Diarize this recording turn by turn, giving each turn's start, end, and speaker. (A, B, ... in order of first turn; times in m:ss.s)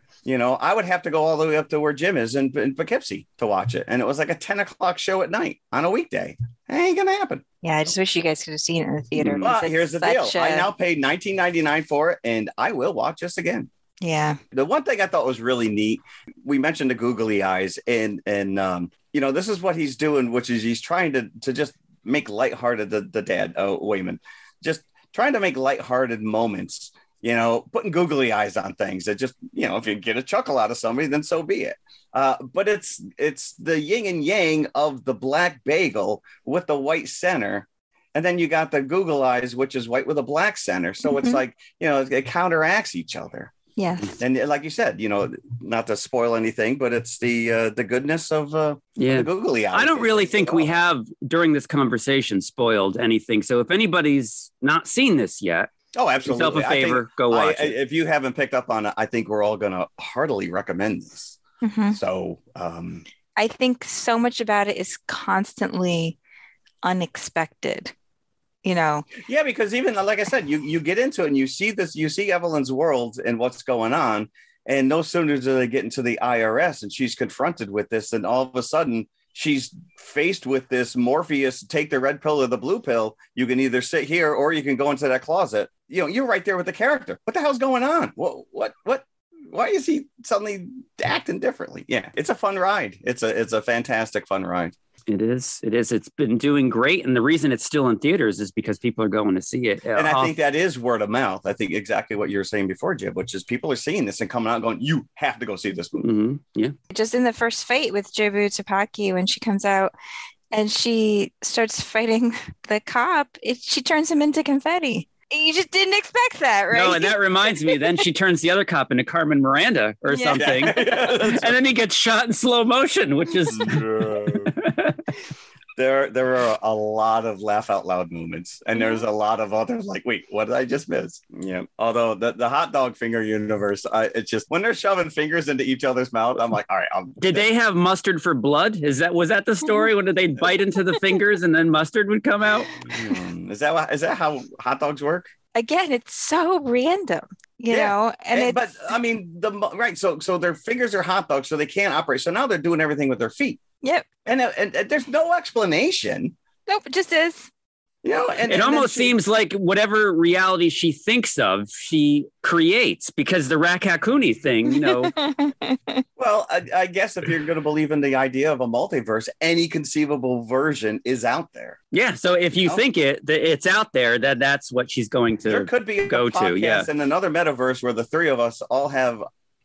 0:00.2-0:07.4 A
0:07.6-0:10.7 B
0:09.2-0:09.5 C
0:09.4-0:13.7 A
0:14.0-0:14.4 B
0:14.5-0:43.5 A
0:41.1-0:41.4 B
0:43.8-0:44.1 B
0:44.2-0:50.8 A
0:49.0-0:55.7 C
0:55.9-1:01.4 A
0:56.2-0:57.7 C
1:01.6-1:02.0 B
1:01.9-1:03.0 A
1:03.4-1:06.2 B
1:06.8-1:07.9 B
1:08.6-1:09.1 B
1:09.2-1:34.7 A
1:35.1-1:40.3 C
1:40.0-1:46.1 A
1:46.0-1:46.7 C
1:46.9-1:49.9 B
1:50.5-1:58.0 B
1:56.7-2:05.0 C
2:00.1-2:00.9 B
2:00.4-2:01.5 A
2:03.5-2:04.5 A
2:05.8-2:17.4 A
2:08.8-2:09.0 B
2:17.2-2:22.7 C
2:22.8-2:25.3 A
2:25.5-2:28.9 B
2:27.7-2:33.6 A
2:34.2-2:36.4 A
2:36.7-2:37.5 B
2:38.0-2:39.1 A
2:38.5-2:45.2 C
2:44.7-2:46.0 B
2:46.2-2:51.8 A
2:51.9-2:56.9 C
2:55.5-2:59.2 A